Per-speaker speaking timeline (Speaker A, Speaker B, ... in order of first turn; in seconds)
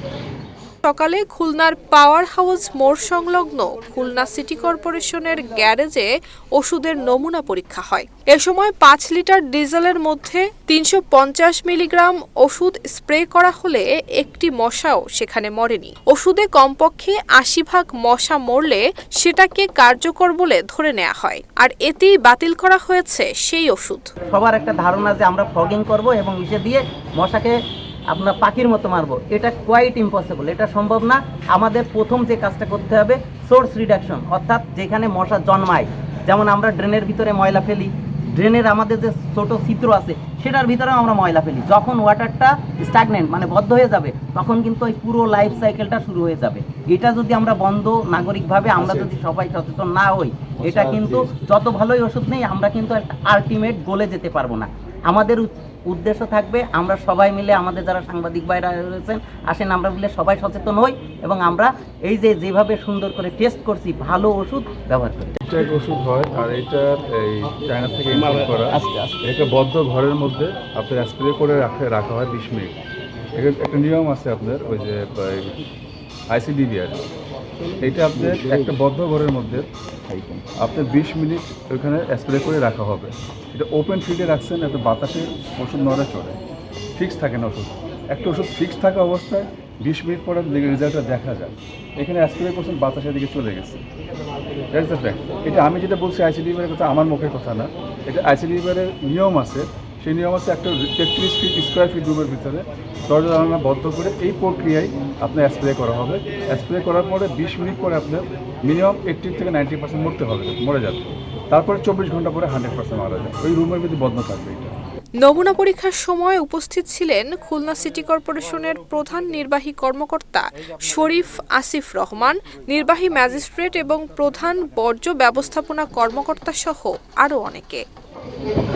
Speaker A: 0.8-24.1, 115.2-127.8
Speaker B: 24.3-27.5, 28.1-65.3, 68.7-69.1
Speaker C: 65.4-72.8, 73.3-75.6, 76.3-77.0, 77.8-79.7, 80.5-86.4, 87.0-93.8, 94.7-114.7